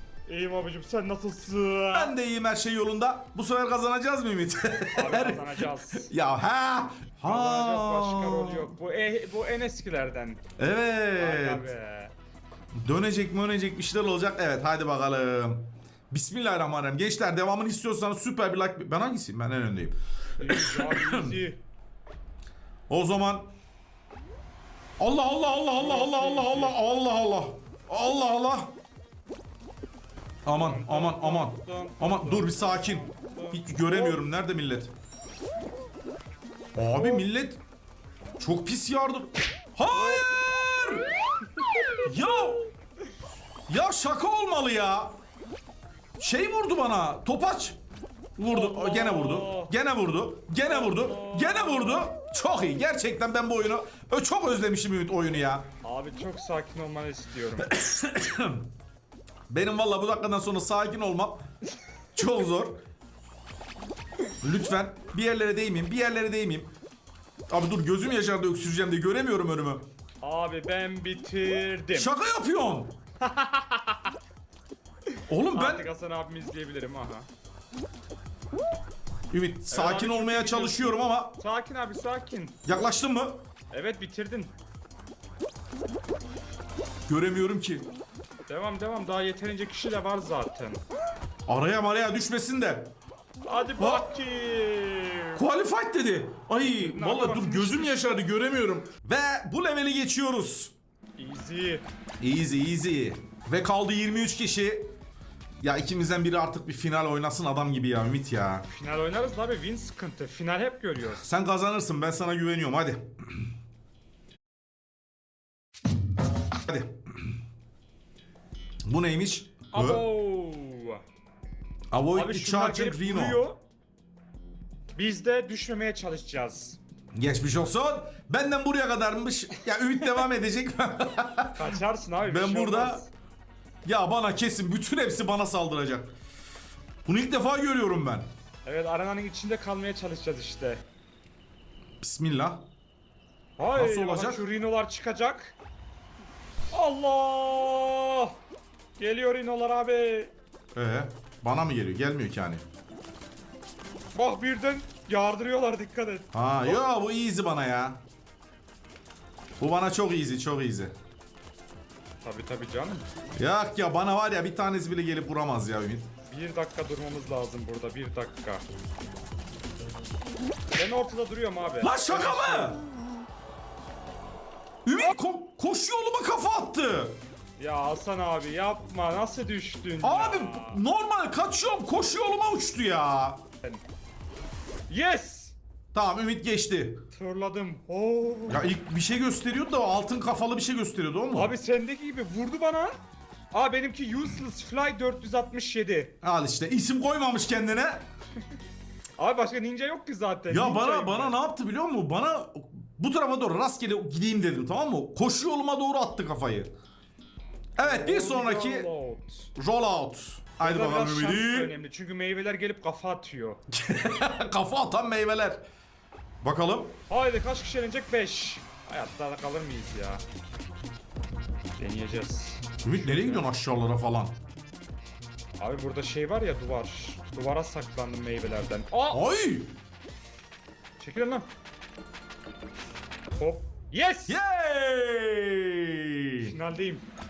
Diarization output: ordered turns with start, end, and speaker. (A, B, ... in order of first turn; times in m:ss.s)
0:00.3-0:02.1 A
0:01.9-0:08.7 B
0:04.9-0:06.1 A
0:07.2-0:10.4 A
0:10.6-0:11.7 B
0:11.2-0:12.1 A
0:12.8-0:21.4 B
0:20.4-0:21.6 A
0:22.9-0:23.5 B
0:25.0-0:28.7 B
0:25.8-0:26.8 A
0:30.5-0:34.9 B
0:30.5-0:34.2 A
0:36.8-0:37.6 B
0:37.0-0:37.3 A
0:38.4-0:41.1 B
0:39.9-0:42.1 A
0:42.0-0:42.7 B
0:43.7-0:45.2 B
0:46.2-0:47.8 B
0:48.4-0:55.7 B
0:48.5-0:49.7 A
0:50.6-0:52.1 A
0:55.8-0:57.7 A
0:57.6-0:58.7 B
0:59.5-1:01.4 B
1:02.1-1:02.8 B
1:04.4-1:06.7 B
1:07.5-1:09.8 B
1:10.2-1:12.1 A
1:12.0-1:13.0 B
1:13.2-1:14.1 A
1:15.3-1:15.9 B
1:15.5-1:17.3 A
1:19.3-1:21.4 B
1:19.7-1:22.6 A
1:22.6-1:23.4 B
1:23.7-1:24.5 A
1:27.1-1:27.9 B
1:28.5-1:30.8 A
1:31.5-1:32.9 B
1:33.4-1:35.4 A
1:33.8-1:34.1 B
1:35.4-1:40.7 B
1:36.8-1:38.2 A
1:41.2-1:41.8 A
1:42.2-1:44.9 B
1:45.6-1:48.7 B
1:48.7-1:51.2 A
1:51.1-1:53.1 B
1:56.6-1:57.0 B
1:58.9-2:00.0 B
1:59.7-2:01.0 A
2:01.9-2:03.4 B
2:02.1-2:03.6 A
2:05.0-2:06.8 A
2:07.2-2:13.0 B
2:11.6-2:13.1 A
2:13.8-2:16.2 B
2:17.1-2:18.3 B
2:18.6-2:20.8 A
2:22.0-2:22.7 B
2:23.6-2:25.6 A
2:23.8-2:24.4 B
2:26.7-2:28.4 A
2:29.0-2:30.3 A
2:30.8-2:32.6 B
2:34.2-2:36.8 A
2:36.3-2:38.0 B
2:39.6-2:40.9 B
2:42.2-2:43.0 A
2:43.4-2:46.1 B
2:46.3-2:48.6 A
2:50.8-2:52.8 A
2:51.8-2:52.8 B
2:54.8-2:57.2 B
2:57.6-3:00.8 A
3:00.0-3:03.4 B
3:04.9-3:05.6 A
3:05.9-3:07.0 B
3:07.1-3:08.7 A
3:08.5-3:11.5 B
3:11.3-3:12.9 A
3:13.5-3:16.1 A
3:16.2-3:18.0 B
3:19.2-3:21.4 A
3:20.5-3:26.7 B
3:27.8-3:28.9 B
3:27.8-3:29.5 A
3:29.6-3:31.7 B
3:30.6-3:33.6 A
3:33.7-3:35.6 B
3:36.4-3:37.0 B
3:37.1-3:40.2 A
3:41.8-3:43.5 A
3:42.8-3:44.3 B
3:45.6-3:49.2 A
3:49.1-3:49.7 B
3:51.0-3:51.5 A
3:53.4-3:54.4 A
3:54.3-3:56.6 B
3:56.4-3:57.1 A